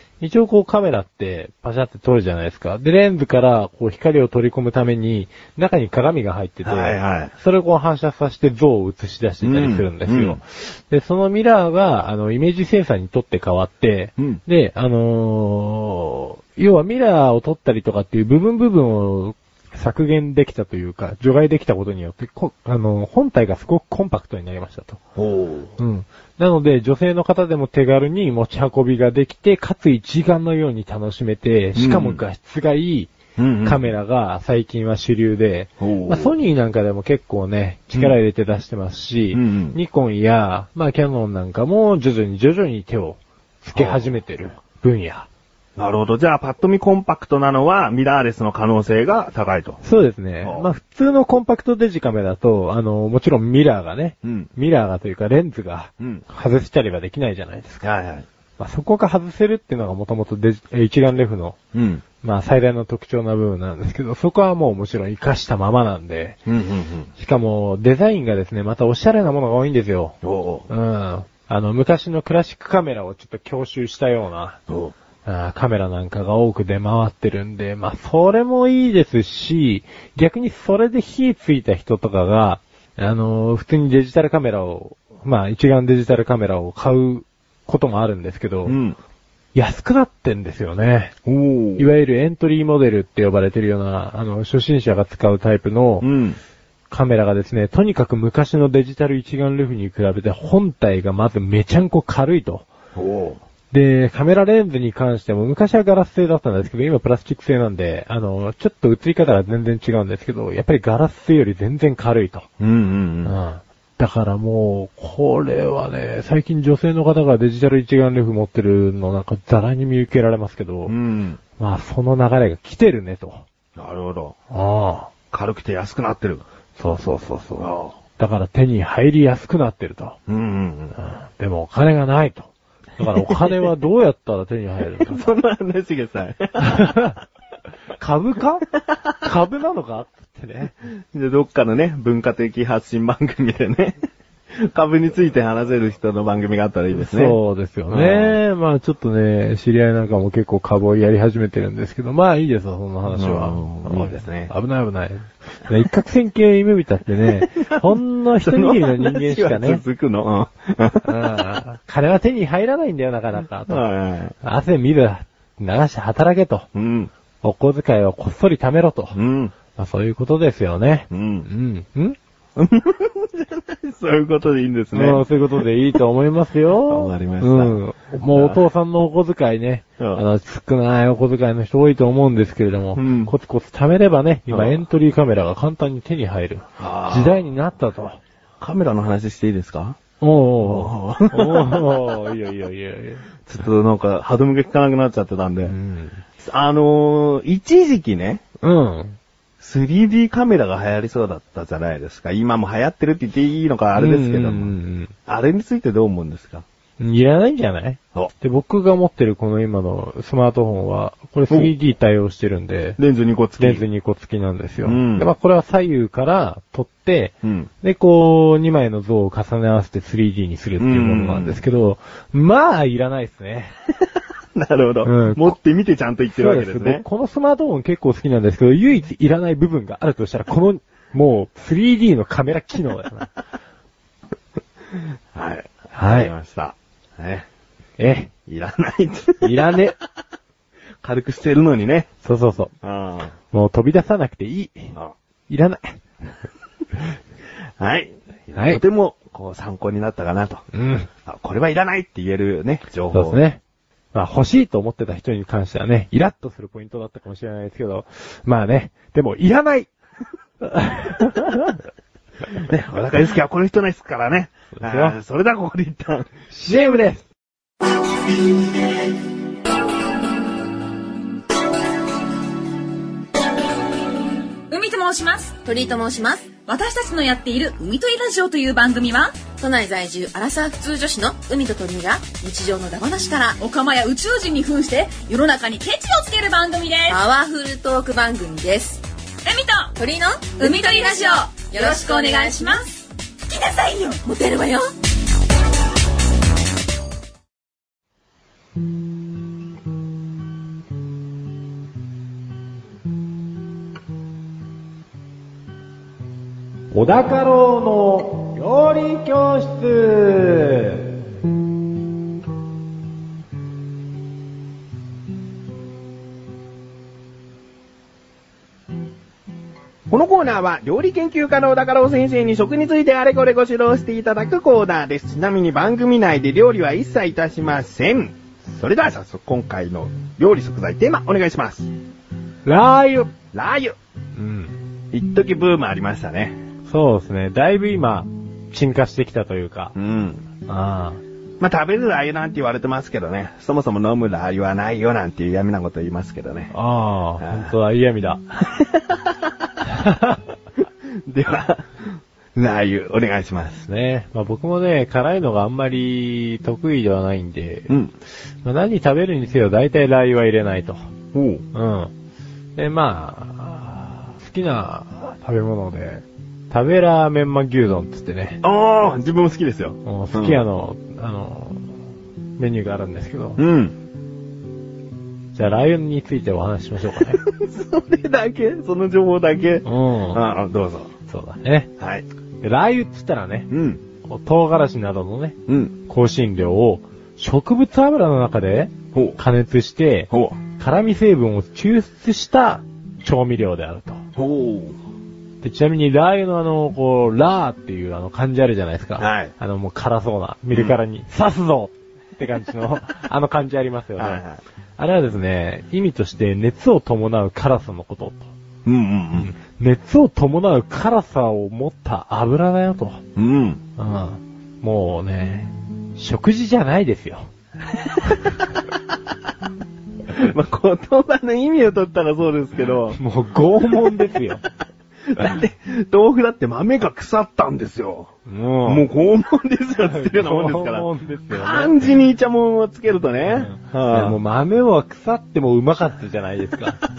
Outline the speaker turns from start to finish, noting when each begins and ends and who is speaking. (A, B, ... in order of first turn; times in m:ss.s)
0:00.2-0:25.0 A
0:06.6-0:07.3 B
0:09.4-0:10.4 B
0:25.2-0:25.7 B
0:25.8-0:33.1 A
0:31.8-0:32.2 B
0:33.4-0:33.8 B
0:33.6-0:45.3 A
0:35.8-0:36.3 B
0:39.3-0:39.8 B
0:43.7-0:44.0 B
0:45.8-0:49.8 B
0:49.8-0:57.8 A
0:50.4-0:50.7 B
0:54.2-0:54.5 B
0:56.0-0:56.2 B
0:57.8-0:58.2 B
0:58.6-1:01.6 A
1:01.7-1:02.0 B
1:02.2-1:06.4 A
1:06.4-1:07.1 B
1:07.2-1:10.2 A
1:10.2-1:10.7 B
1:10.7-1:14.6 A
1:14.7-1:14.9 B
1:15.2-1:28.8 A
1:28.6-1:29.0 B
1:29.5-1:31.1 A
1:31.2-1:31.9 B
1:31.8-1:36.1 A
1:36.0-1:36.4 B
1:36.9-1:42.7 A
1:42.9-1:43.4 B
1:43.7-1:52.5 A
1:52.6-1:53.3 B
1:53.2-2:00.9 A
2:00.9-2:01.4 B
2:01.6-2:03.4 A
2:03.8-2:04.3 B
2:04.5-2:05.1 A
2:05.3-2:06.4 B
2:06.8-2:10.2 A
2:07.6-2:08.0 B
2:10.3-2:10.9 B
2:11.0-2:15.3 A
2:13.2-2:13.7 B
2:15.0-2:17.0 B
2:16.6-2:17.2 A
2:18.0-2:20.7 A
2:21.1-2:24.0 B
2:24.5-2:27.4 B
2:26.9-2:39.8 A
2:27.9-2:28.4 B
2:33.1-2:34.5 B
2:38.4-2:41.3 B
2:41.0-2:43.8 A
2:43.7-2:44.3 B
2:44.4-2:46.7 A
2:46.7-2:47.1 B
2:47.4-2:49.2 A
2:49.1-2:49.5 B
2:49.7-2:52.2 A
2:51.1-2:51.5 B
2:52.6-2:55.2 B
2:54.9-3:08.2 A
2:56.9-2:58.6 B
3:00.0-3:00.2 B
3:03.0-3:03.3 B
3:04.5-3:04.8 B
3:06.8-3:07.4 B
3:08.6-3:10.0 B
3:10.2-3:13.2 A
3:10.6-3:12.0 B
3:13.4-3:15.7 B
3:15.7-3:16.2 A
3:16.4-3:18.4 B
3:18.6-3:19.2 A
3:19.6-3:24.7 B
3:23.9-3:25.1 A
3:25.3-3:26.6 B
3:27.0-3:33.0 A
3:33.0-3:33.8 B
3:33.6-3:43.7 A
3:34.8-3:35.3 B
3:37.4-3:37.7 B
3:40.8-3:41.6 B
3:44.5-3:47.0 B
3:45.0-3:45.6 A
3:46.3-3:53.3 A
3:55.3-3:57.5 B
3:55.9-3:56.3 A
3:58.0-3:58.3 A
3:58.4-3:59.8 B
3:59.4-4:00.0 A
4:01.0-4:02.1 B
4:02.2-4:02.7 A
4:02.8-4:03.3 B
4:03.5-4:04.9 A
4:05.5-4:06.0 A
4:07.8-4:10.6 B
4:08.5-4:08.8 A
4:10.7-4:11.1 A
4:11.2-4:13.4 B
4:13.1-4:13.6 A
4:14.1-4:19.9 A
4:20.6-4:21.8 A
4:22.5-4:26.3 B
4:24.7-4:25.2 A
4:26.5-4:27.3 A
4:34.7-4:35.6 C
4:35.6-4:36.5 D
4:36.7-4:39.4 C
4:39.6-4:43.6 D
4:43.6-4:47.2 C
4:47.1-4:49.0 D
4:49.4-4:49.9 C
4:50.0-4:52.8 D
4:50.6-4:54.1 C
4:53.6-4:54.9 D
5:06.9-5:11.0 A
5:20.1-5:31.9 B
5:32.6-5:33.3 A
5:33.5-5:34.0 B
5:34.4-5:34.8 A
5:35.1-5:36.6 B
5:36.9-5:39.9 A
5:39.9-5:40.4 B
5:40.7-5:41.2 A
5:41.6-5:46.7 B
5:46.7-5:48.4 A
5:47.4-5:47.7 B
5:48.6-5:49.5 B
5:49.8-5:50.4 A
5:51.1-5:53.8 B
5:53.8-5:57.9 A
5:58.6-6:01.1 A
6:01.3-6:01.6 B
6:01.7-6:02.1 A
6:02.8-6:08.6 A
6:08.6-6:10.6 B
6:10.0-6:11.9 A
6:12.6-6:13.6 A
6:13.6-6:13.9 B
6:15.5-6:17.4 A
6:17.4-6:21.1 B
6:19.8-6:20.4 A
6:21.3-6:21.9 A
6:22.0-6:22.2 B
6:22.6-6:23.7 A
6:23.7-6:24.0 B
6:24.2-6:34.2 A
6:25.7-6:25.9 B
6:29.1-6:29.4 B
6:30.3-6:30.6 B
6:34.4-6:35.0 B
6:35.6-6:44.4 A
6:39.2-6:39.5 B
6:40.7-6:41.0 B
6:44.2-6:44.6 B
6:45.0-6:48.5 A
6:48.8-6:49.5 B
6:49.4-6:53.2 A
6:53.4-6:53.8 B
6:54.0-6:57.5 A
6:58.0-6:58.5 B
7:00.3-7:03.2 B
7:03.1-7:04.6 A
7:03.9-7:04.3 B
7:05.3-7:08.3 B
7:08.5-7:09.1 A
7:08.8-7:14.4 B
7:10.1-7:12.1 A
7:13.5-7:17.0 A